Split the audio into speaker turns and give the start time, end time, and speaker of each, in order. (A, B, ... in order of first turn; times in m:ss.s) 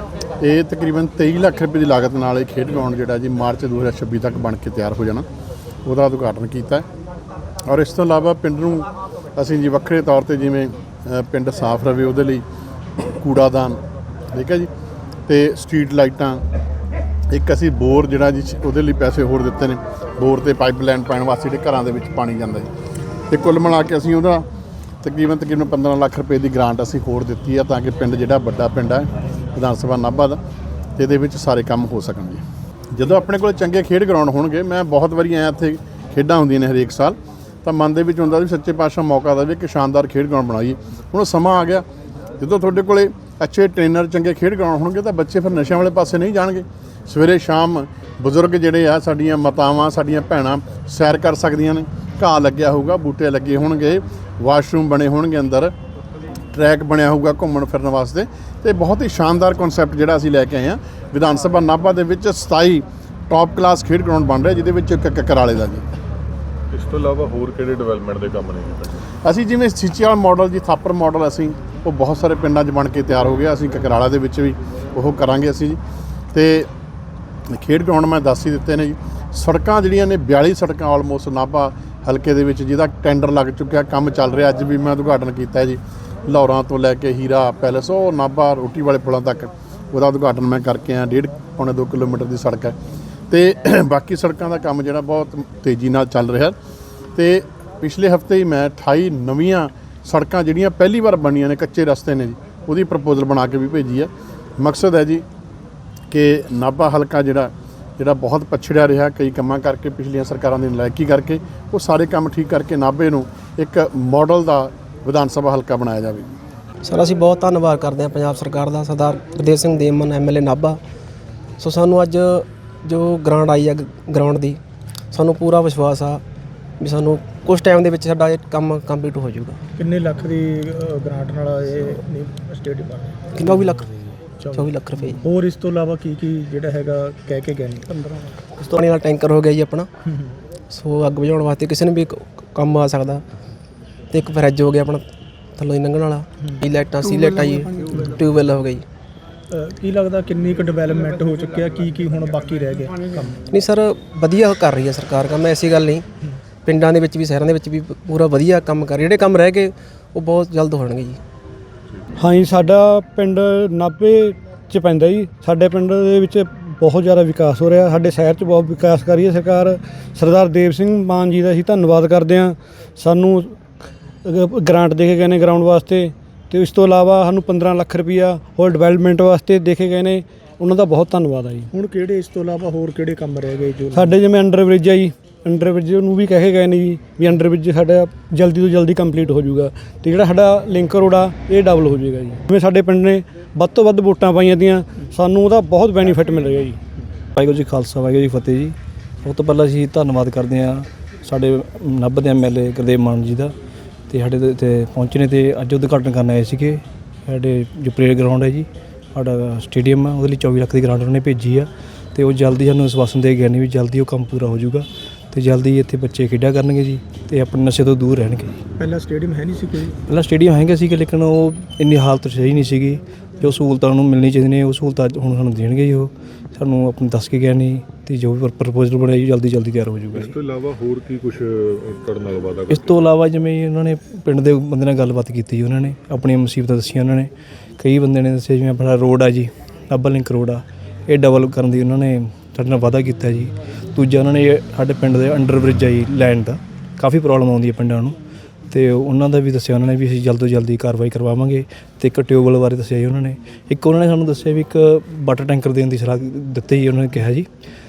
0:00.4-0:05.2 A
0:05.9-0:06.9 A
0:07.7-0:12.4 A
0:13.0-0:13.8 A
0:14.3-0:14.7 A
0:15.3-0:16.4 A
0:17.3-0:22.7 A
0:23.3-0:24.5 A
0:25.0-0:30.4 A
0:31.0-0:32.4 A
0:32.9-0:41.8 A
0:42.4-0:55.7 A
0:56.5-1:05.8 A
1:06.7-1:09.0 B
1:09.2-1:15.8 A
1:16.3-1:16.7 A
1:17.5-1:32.8 A
1:33.3-1:36.6 A
1:37.2-1:45.2 A
1:46.1-1:56.3 A
1:56.8-2:00.8 C
2:01.6-2:04.6 C
2:05.1-2:06.2 C
2:06.8-2:09.6 C
2:09.8-2:13.2 D
2:13.4-2:14.0 C
2:14.4-2:14.7 D
2:14.5-2:15.2 C
2:15.2-2:18.2 D
2:18.6-2:19.9 C
2:20.7-2:23.2 C
2:24.1-2:25.0 C
2:25.6-2:28.8 C
2:29.5-2:33.4 D
2:33.5-2:36.1 C
2:36.6-2:41.2 C
2:42.2-2:53.5 E
2:54.3-3:01.7 E
3:01.8-3:04.2 D
3:03.9-3:16.8 E
3:17.4-3:23.5 F
3:24.1-3:38.6 F
3:38.8-3:39.9 D
3:40.1-3:50.3 F
3:50.1-3:53.1 B
3:52.7-4:08.2 F
4:08.7-4:17.5 F